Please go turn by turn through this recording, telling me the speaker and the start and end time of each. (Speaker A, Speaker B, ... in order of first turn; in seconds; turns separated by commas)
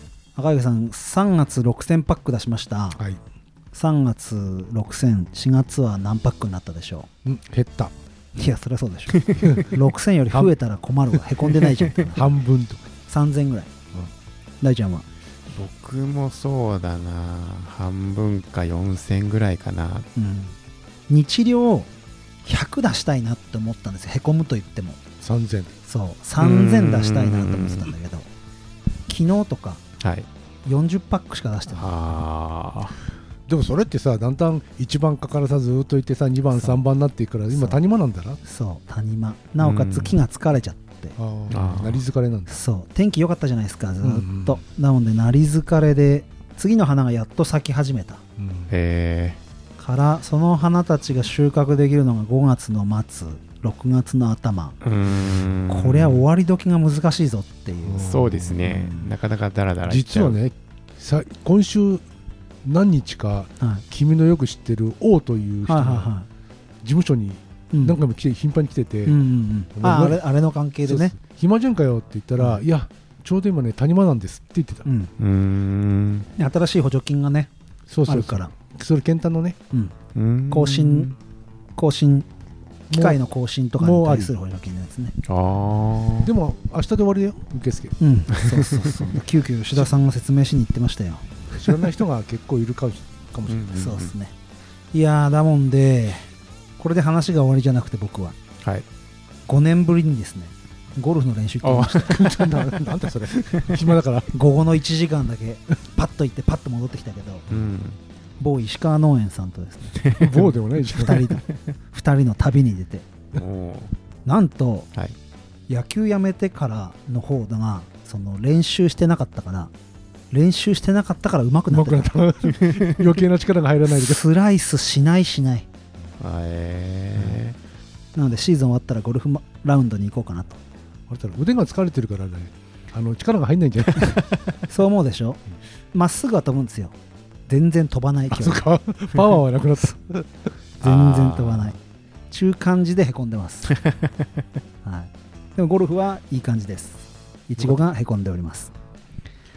Speaker A: 0.3-3.0, Speaker A: 3.7-7.1, Speaker B: 7.2-7.9, Speaker A: 8.4-12.2, Speaker C: 9.1-9.5, Speaker B: 9.4-9.7, Speaker B: 11.5-12.8, Speaker A: 13.1-13.7, Speaker A: 14.6-15.0, Speaker C: 15.5-20.1, Speaker A: 20.1-20.6, Speaker A: 21.1-21.9, Speaker A: 22.4-25.0, Speaker B: 25.2-25.8, Speaker A: 25.9-28.3, Speaker C: 26.4-27.9, Speaker A: 29.1-29.8, Speaker C: 30.0-30.3, Speaker A: 30.6-32.0, Speaker C: 31.7-33.0, Speaker B: 33.5-38.4, Speaker A: 36.5-36.8, Speaker A: 37.5-37.8, Speaker A: 38.4-41.2, Speaker C: 39.6-40.2, Speaker B: 41.2-42.6, Speaker C: 41.5-42.0, Speaker A: 42.5-48.2, Speaker B: 44.0-44.6, Speaker B: 48.4-48.7, Speaker C: 48.7-49.4, Speaker A: 49.8-54.8, Speaker C: 54.8-56.1, Speaker A: 55.7-59.1, Speaker B: 57.9-58.6, Speaker C: 58.0-60.4, Speaker B: 59.8-62.0, Speaker B: 62.6-66.1, Speaker A: 65.6-66.3, Speaker B: 66.8-69.2, Speaker A: 67.7-68.0, Speaker A: 69.0-71.1, Speaker B: 69.7-70.2, Speaker B: 70.8-74.8, Speaker A: 74.8-75.1, Speaker C: 75.2-76.3, Speaker A: 76.4-77.5, Speaker B: 77.9-79.6, Speaker A: 78.0-78.5, Speaker C: 80.1-81.2, Speaker A: 80.5-81.1, Speaker A: 81.8-82.3, Speaker B: 82.9-83.2, Speaker A: 82.9-85.1, Speaker B: 83.8-84.3, Speaker C: 85.2-86.3, Speaker B: 86.2-88.0, Speaker A: 88.0-91.2, Speaker B: 91.5-93.6, Speaker C: 93.5-94.1, Speaker A: 93.7-94.3, Speaker A: 94.9-96.3, Speaker A: 96.8-98.3, Speaker A: 99.5-102.2, Speaker C: 101.6-102.7, Speaker B: 102.1-104.3, Speaker C: 103.3-103.8, Speaker A: 104.3-107.4, Speaker C: 107.5-108.0, Speaker A: 108.4-110.0, Speaker C: 110.0-110.5, Speaker B: 110.2-111.3, Speaker A: 111.0-113.0, Speaker C: 113.3-113.9, Speaker A: 114.2-114.9, Speaker A: 115.7-119.7, Speaker A: 120.3-122.1, Speaker B: 121.7-124.2, Speaker A: 123.9-125.7, Speaker C: 126.2-127.6, Speaker A: 128.2-130.6, Speaker B: 131.1-134.2, Speaker A: 134.7-135.4, Speaker A: 135.9-136.9, Speaker A: 137.5-138.7, Speaker B: 138.3-140.5, Speaker A: 140.8-141.8, Speaker C: 140.8-141.8, Speaker A: 142.3-143.7, Speaker C: 143.7-144.1, Speaker A: 144.8-148.7